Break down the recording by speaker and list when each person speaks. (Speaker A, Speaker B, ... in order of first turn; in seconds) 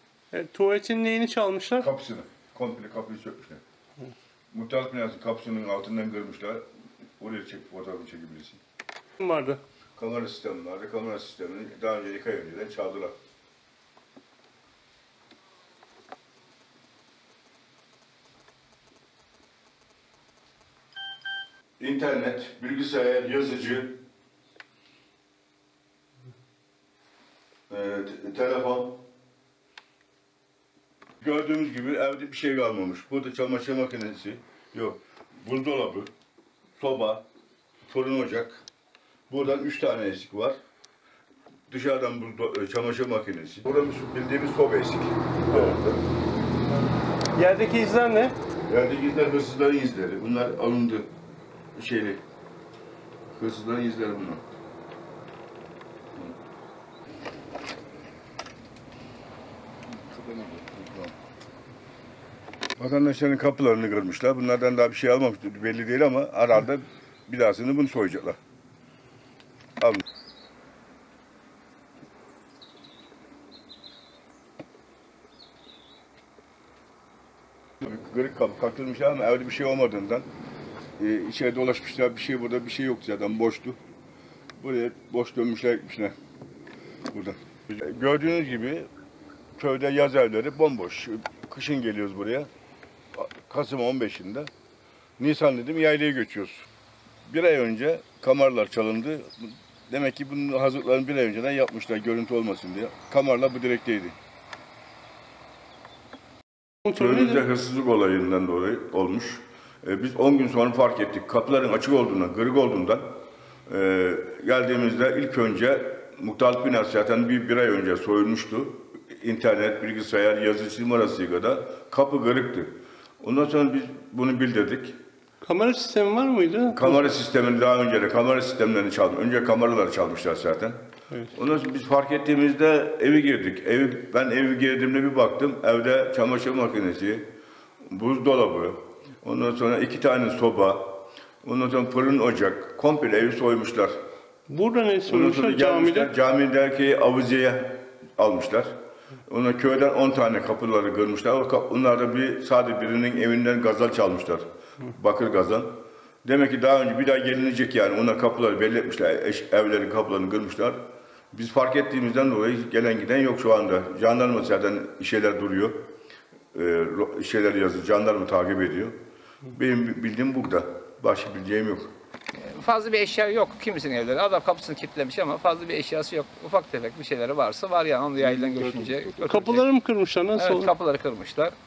Speaker A: 0.3-1.9, 9.2-9.6, 45.5-45.8, 47.3-48.4, 106.8-107.4, 125.4-127.0, 144.5-146.1, 179.3-180.7
Speaker B: 1.8-3.6, 4.5-6.6, 7.2-8.6, 9.9-13.1, 21.8-24.0, 27.7-29.0, 31.2-36.1, 36.8-37.2, 37.9-38.6, 39.3-40.6, 41.7-46.0, 48.6-51.1, 51.7-52.2, 53.3-54.4, 60.0-61.1, 62.8-68.4, 77.8-80.3, 81.0-83.8, 84.6-86.1, 87.1-88.9, 89.6-92.5, 93.1-94.5, 95.2-96.7, 97.3-104.2, 106.9-113.0, 113.7-125.0, 126.7-130.8, 131.3-137.3, 137.8-143.9, 145.1-148.7, 149.3-160.8, 161.3-165.8, 166.5-168.9, 169.5-171.9
Speaker C: 172.3-179.6, 180.3-181.6